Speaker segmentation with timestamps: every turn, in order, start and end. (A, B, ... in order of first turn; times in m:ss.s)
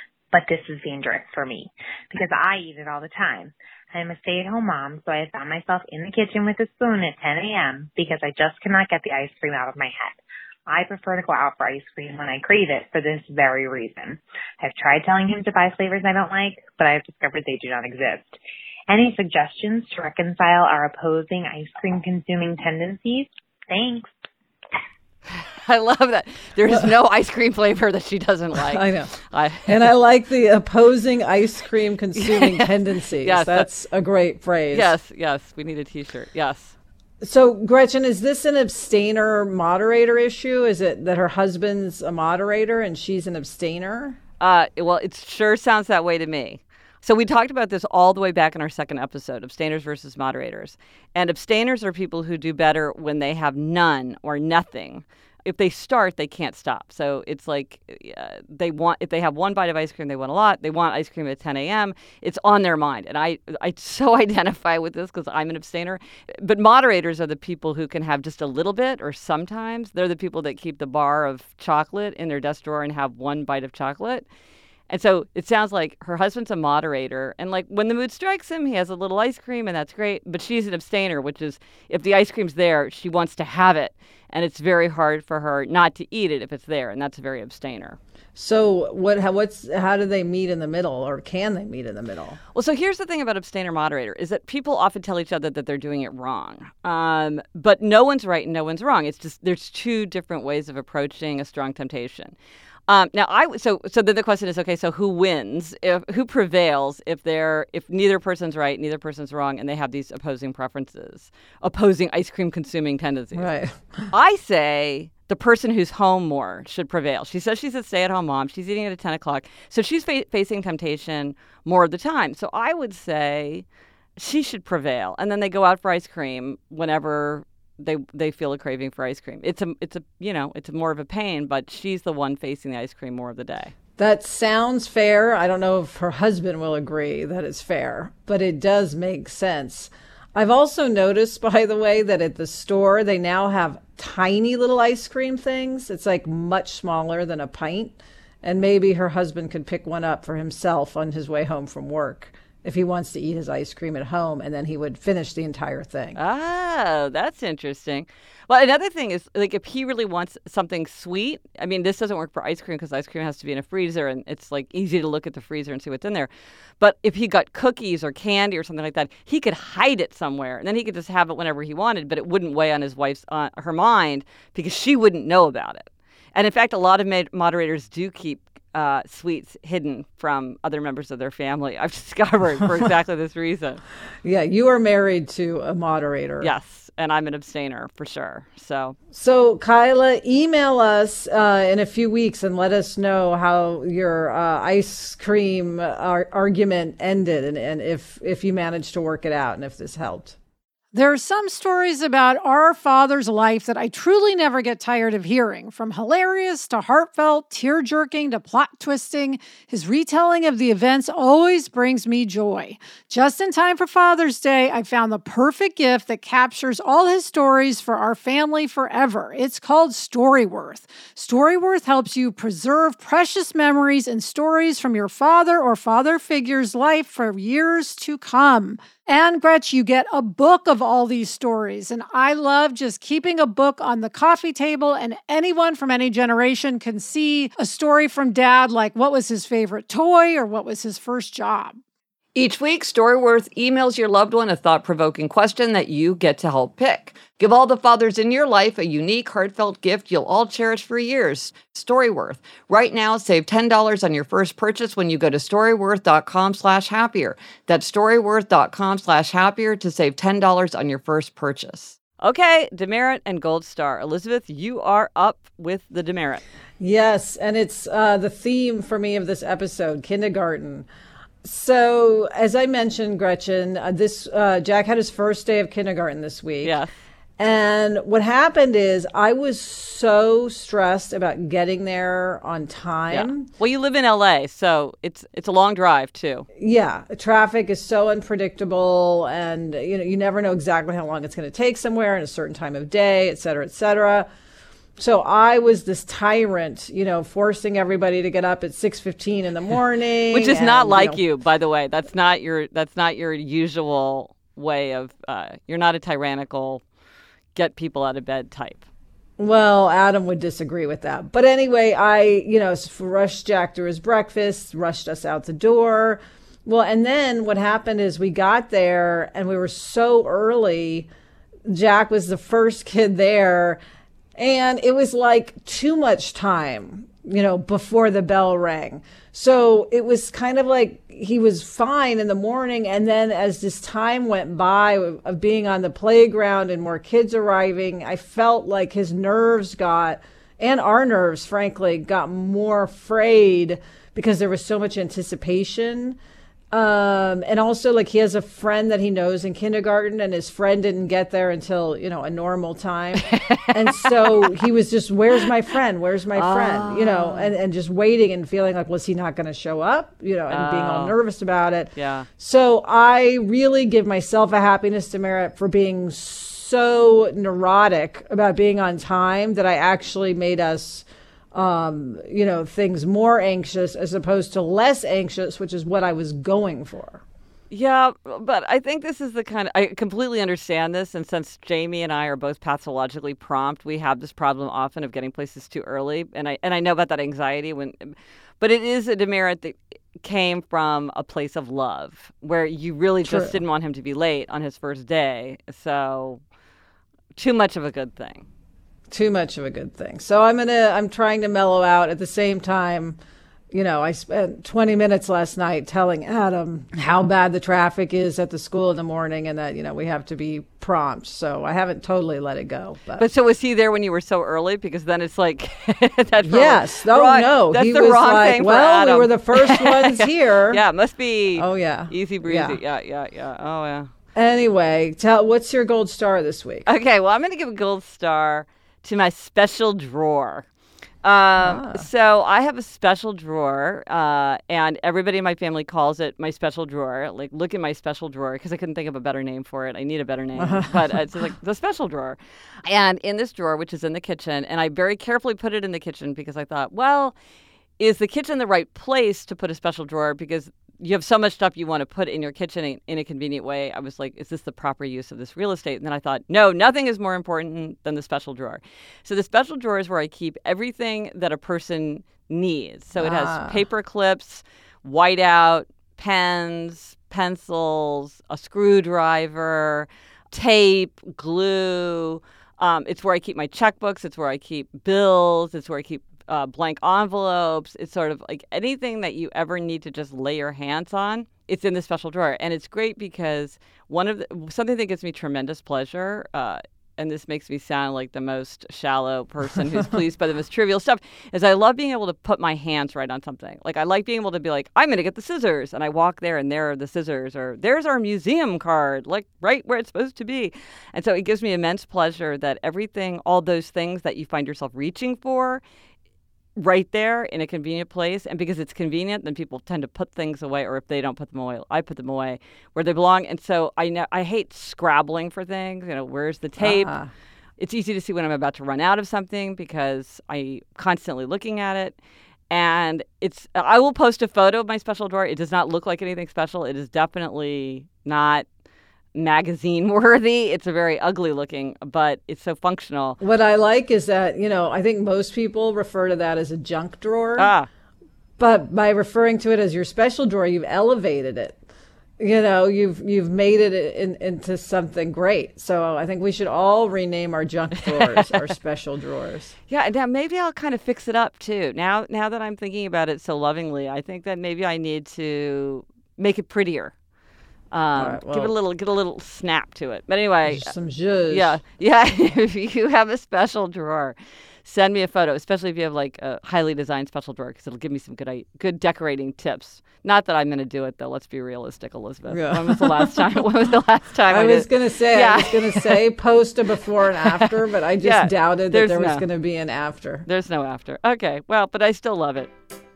0:00.3-0:24.1 A
0:25.3-0:29.7 B
0:28.5-0:29.1 C
0:29.6-0:34.9 C
0:32.2-0:32.7 B
0:33.2-0:33.7 B
0:34.7-0:36.8 B
0:37.2-0:44.2 C
0:44.4-1:14.3 B
1:14.9-1:28.0 B
1:28.4-1:32.4 C
1:32.5-1:42.4 B
1:42.9-1:53.5 B
1:53.4-1:54.1 C
1:54.1-2:03.6 B
2:04.2-2:13.7 B
2:14.0-2:36.2 C
2:36.2-2:46.3 B
2:46.8-3:03.8 B
3:04.2-3:06.5 C
3:06.4-3:09.0 B
3:09.1-3:20.4 C
3:20.9-4:01.8 D
4:02.4-4:22.0 E
4:22.2-4:26.4 B
4:26.8-4:30.9 C
4:31.4-4:36.8 C
4:36.6-4:36.9 B
4:37.4-4:43.5 C
4:43.1-4:46.5 B
4:46.6-4:54.3 C
4:55.0-5:01.2 C
5:00.3-5:06.8 B
5:07.6-5:08.9 B
5:09.4-5:21.1 C
5:21.6-5:23.8 C
5:24.4-5:46.2 C
5:46.7-6:17.2 C
5:53.2-5:54.5 B
5:56.4-5:57.5 B
6:00.5-6:01.1 B
6:02.0-6:02.3 B
6:17.7-6:36.4 B
6:33.2-6:33.6 C
6:37.4-6:38.5 B
6:39.1-6:43.2 C
6:43.7-6:53.3 C
6:53.2-7:04.1 B
6:56.4-7:00.8 C
7:01.6-7:02.8 C
7:04.4-7:06.9 C
7:06.9-7:10.7 B
7:11.2-7:27.4 B
7:11.6-7:12.1 C
7:20.6-7:21.0 C
7:28.0-8:25.8 B
7:43.2-7:43.8 C
8:26.8-8:37.1 B
8:36.8-8:37.3 C
8:37.8-8:42.2 B
8:42.7-8:48.6 B
8:49.4-8:53.4 B
8:53.4-8:57.7 C
8:57.6-8:57.9 B
8:58.6-9:01.8 C
9:02.4-9:09.8 C
9:09.9-9:17.1 B
9:17.9-9:20.9 B
9:18.1-9:18.7 C
9:20.6-9:21.8 C
9:21.5-9:36.2 B
9:32.5-9:33.6 C
9:34.5-9:40.5 C
9:37.4-9:39.4 B
9:40.5-9:42.7 B